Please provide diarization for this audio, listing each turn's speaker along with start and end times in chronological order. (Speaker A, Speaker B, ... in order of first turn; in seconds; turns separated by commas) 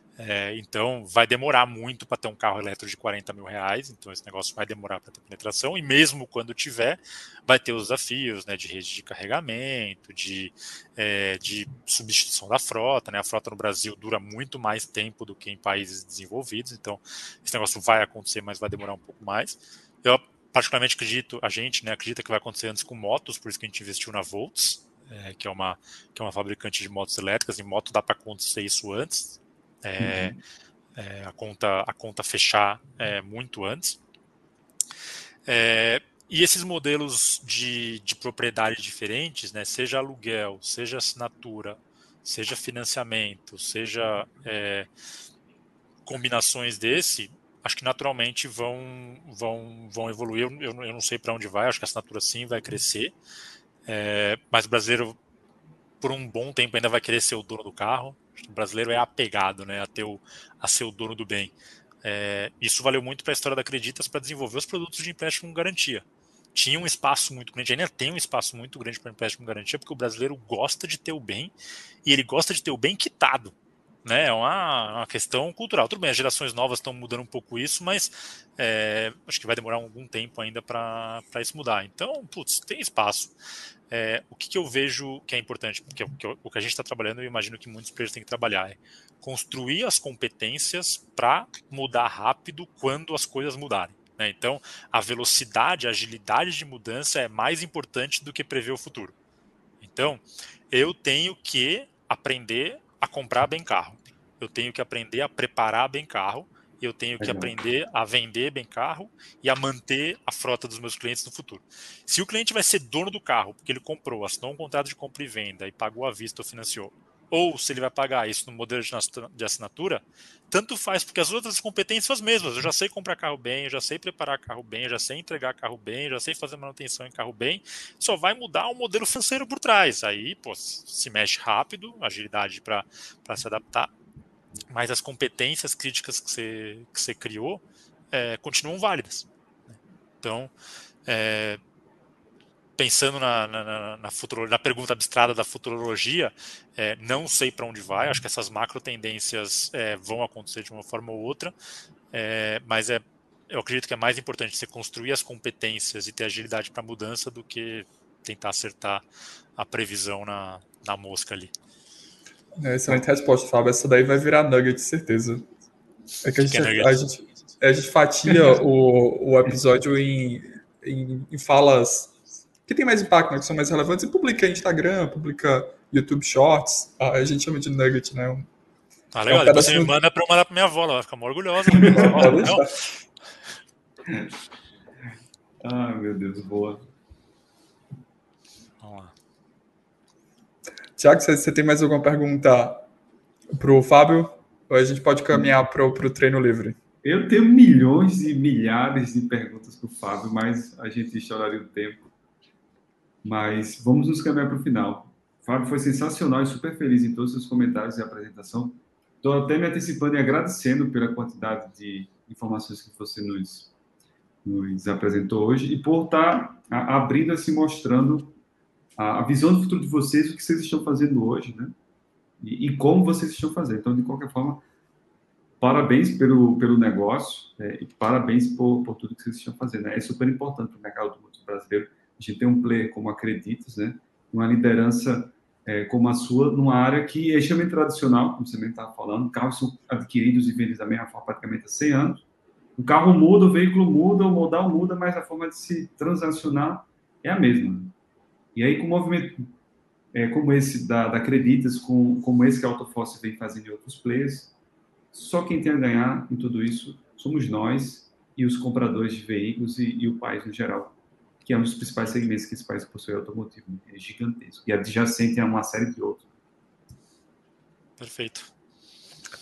Speaker A: 0.2-30.4, Speaker B: 30.0-30.4, Speaker A: 30.9-34.0, Speaker A: 35.5-44.9, Speaker A: 46.0-53.1, Speaker A: 53.9-55.1, Speaker A: 56.0-71.5, Speaker A: 72.0-83.3, Speaker A: 83.9-99.1, Speaker A: 99.8-133.9, Speaker B: 107.2-107.5, Speaker A: 134.7-139.3, Speaker A: 140.2-140.5, Speaker A: 141.1-141.6, Speaker A: 142.8-151.5, Speaker A: 152.1-159.0, Speaker A: 159.6-161.5, Speaker C: 162.6-165.4, Speaker C: 166.2-172.1, Speaker A: 166.4-167.0, Speaker C: 172.7-178.5, Speaker A: 179.1-182.7, Speaker C: 179.3-179.9, Speaker C: 181.8-182.7, Speaker B: 181.9-182.3, Speaker B: 185.6-186.8, Speaker A: 188.8-189.1, Speaker C: 191.0-192.8, Speaker C: 193.5-196.8, Speaker B: 197.0-202.1, Speaker B: 203.2-213.7, Speaker B: 214.4-218.4, Speaker B: 219.0-221.7, Speaker B: 222.4-224.6, Speaker B: 225.6-242.2, Speaker B: 242.8-247.9, Speaker B: 248.5-249.5, Speaker B: 250.1-254.5, Speaker B: 255.1-266.2, Speaker A: 268.0-268.5